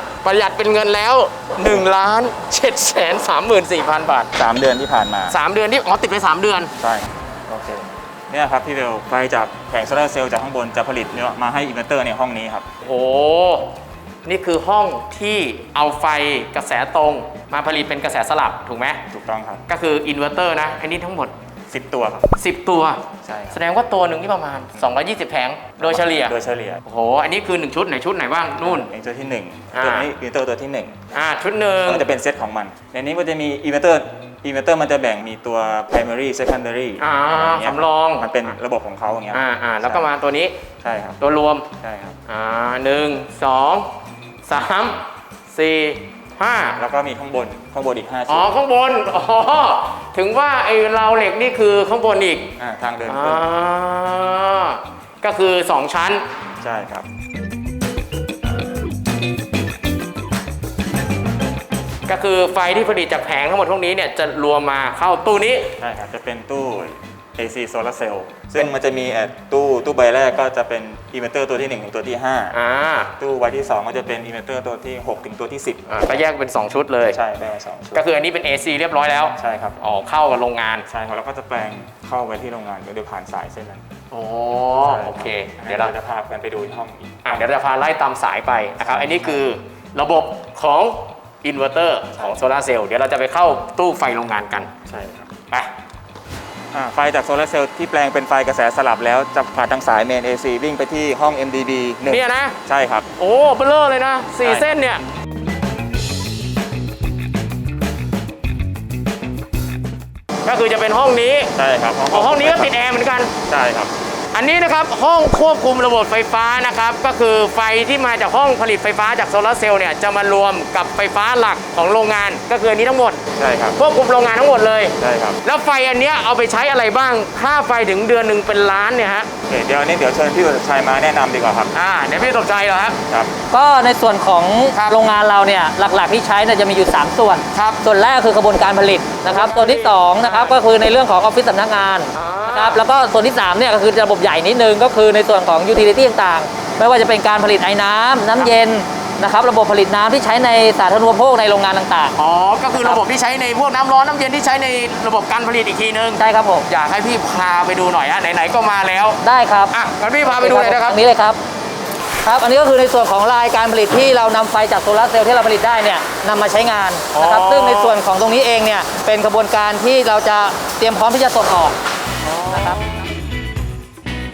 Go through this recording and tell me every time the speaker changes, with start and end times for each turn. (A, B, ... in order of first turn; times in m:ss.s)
0:00.2-0:04.3 A
0:04.4-0:05.4 B
0:05.3-0:06.7 A
0:06.8-0:12.6 B
0:12.8-0:13.7 A
0:14.2-0:19.0 A
0:19.1-0:19.6 B
0:19.7-0:21.3 A
0:21.7-0:22.3 B
0:22.4-0:28.9 A
0:23.2-0:23.6 B
0:25.8-0:26.8 B
0:28.6-0:31.0 B
0:29.7-0:30.1 A
0:31.1-0:32.1 A
0:31.8-0:40.1 B
0:37.0-0:38.3 A
0:39.3-0:40.6 A
0:40.8-0:41.2 B
0:41.2-0:41.7 A
0:41.8-0:42.2 B
0:42.3-0:43.9 A
0:44.5-0:46.8 A
0:46.7-0:48.5 B
0:48.3-0:52.5 A
0:52.6-0:53.5 B
0:53.1-0:56.2 A
0:56.6-0:57.1 B
1:02.1-1:05.8 A
1:05.8-1:12.6 B
1:12.5-1:13.1 A
1:13.2-1:16.2 B
1:15.9-1:17.2 A
1:17.1-1:18.0 B
1:17.9-1:20.9 A
1:19.4-1:19.8 B
1:20.9-1:23.8 B
1:24.1-1:25.9 A
1:24.8-1:27.4 B
1:27.2-1:34.7 A
1:28.8-1:29.4 B
1:34.9-1:35.3 B
1:36.7-1:43.1 B
1:42.1-1:42.6 A
1:43.2-1:45.0 A
1:44.4-1:44.7 B
1:50.4-1:51.5 A
1:51.5-1:52.8 B
1:52.1-1:53.3 A
1:53.4-1:53.9 B
1:54.3-2:03.2 A
2:03.4-2:03.8 B
2:03.8-2:09.3 A
2:05.0-2:05.4 B
2:09.5-2:11.7 B
2:11.7-2:13.0 A
2:13.1-2:13.3 B
2:13.5-2:32.2 C
2:14.7-2:15.0 A
2:17.5-2:17.8 A
2:19.3-2:20.6 A
2:22.1-2:22.8 A
2:32.2-2:41.0 A
2:32.7-2:33.0 C
2:36.2-2:36.6 C
2:39.2-2:41.4 C
2:42.2-2:51.8 C
2:47.1-2:48.0 A
2:52.2-2:53.1 A
2:52.5-2:52.8 C